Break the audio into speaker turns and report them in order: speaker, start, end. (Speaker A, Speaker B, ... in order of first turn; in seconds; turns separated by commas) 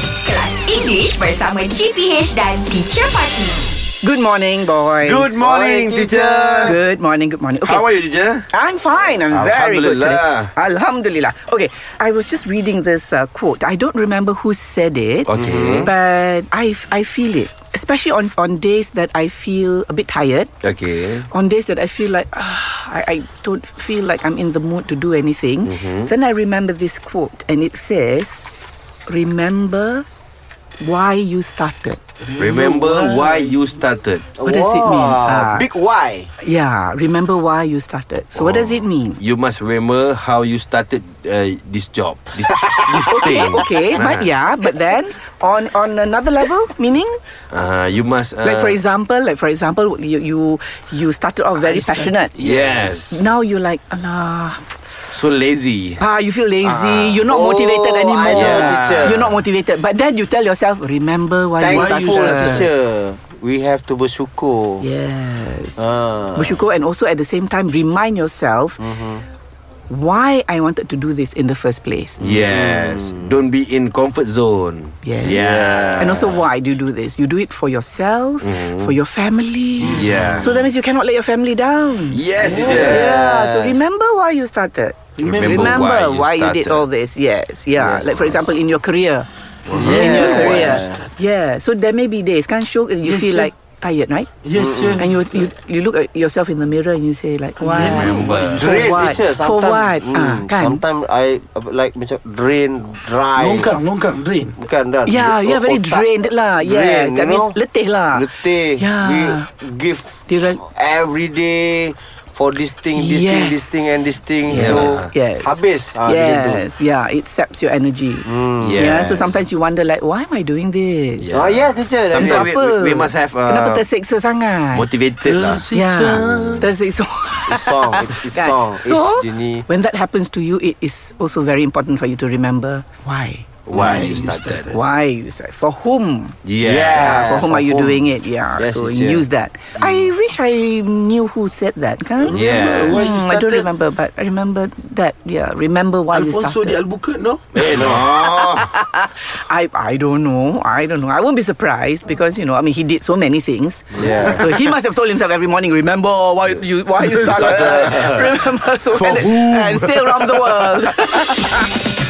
Speaker A: 0.2-3.6, Speaker B: 4.0-5.3, Speaker C: 5.0-6.8, Speaker D: 5.4-6.8, Speaker B: 6.6-7.8, Speaker C: 7.6-8.5, Speaker B: 8.5-20.5, Speaker C: 9.3-10.5, Speaker C: 15.3-15.9, Speaker D: 15.3-15.9, Speaker C: 20.6-21.3, Speaker B: 21.2-28.4, Speaker C: 25.6-26.1, Speaker B: 29.1-30.1, Speaker B: 30.8-32.0, Speaker E: 32.2-33.5, Speaker C: 32.4-34.3, Speaker D: 34.4-36.3, Speaker B: 34.4-35.7, Speaker B: 36.4-39.2, Speaker C: 38.3-44.3, Speaker B: 42.9-47.2, Speaker C: 47.5-48.8, Speaker B: 48.4-55.1, Speaker C: 52.3-53.2, Speaker C: 55.1-56.0, Speaker B: 56.0-62.7, Speaker D: 56.6-59.2, Speaker C: 58.3-59.4, Speaker D: 61.6-64.8, Speaker E: 61.7-62.7, Speaker B: 64.8-68.8, Speaker D: 65.8-66.6, Speaker D: 68.8-69.2, Speaker B: 69.9-72.2, Speaker D: 72.2-73.3, Speaker C: 72.2-76.3, Speaker B: 75.0-94.3, Speaker D: 75.2-76.4, Speaker C: 78.4-79.0, Speaker C: 79.8-80.6, Speaker D: 79.8-80.5, Speaker C: 82.1-83.1, Speaker D: 82.4-83.8, Speaker E: 85.2-85.7, Speaker C: 85.2-86.9, Speaker D: 87.8-88.3, Speaker C: 89.7-90.6, Speaker E: 89.7-91.0, Speaker D: 89.7-91.1, Speaker E: 93.0-93.5, Speaker E: 94.4-95.0, Speaker D: 94.5-95.1, Speaker B: 94.9-100.8, Speaker E: 97.6-98.7, Speaker C: 97.7-98.7, Speaker D: 98.5-103.8, Speaker E: 103.3-104.6, Speaker D: 104.5-107.6, Speaker B: 105.0-109.5, Speaker D: 108.1-116.7, Speaker B: 110.3-110.6, Speaker B: 112.9-113.8, Speaker C: 114.5-115.1, Speaker B: 114.5-121.4, Speaker D: 118.2-119.0, Speaker C: 118.6-119.4, Speaker C: 121.2-123.8, Speaker D: 121.3-122.5, Speaker B: 122.2-124.9, Speaker C: 124.7-126.7, Speaker E: 125.2-126.6, Speaker B: 125.7-133.5, Speaker D: 127.5-129.7, Speaker C: 133.7-134.8, Speaker D: 133.7-134.1, Speaker E: 133.8-134.6, Speaker B: 134.6-136.4, Speaker C: 136.4-137.2, Speaker D: 136.6-139.2, Speaker B: 136.9-146.8, Speaker C: 142.2-143.0, Speaker E: 142.2-143.7, Speaker E: 146.1-147.6, Speaker C: 147.5-148.7, Speaker B: 147.8-161.7, Speaker D: 153.9-154.4, Speaker C: 157.3-158.1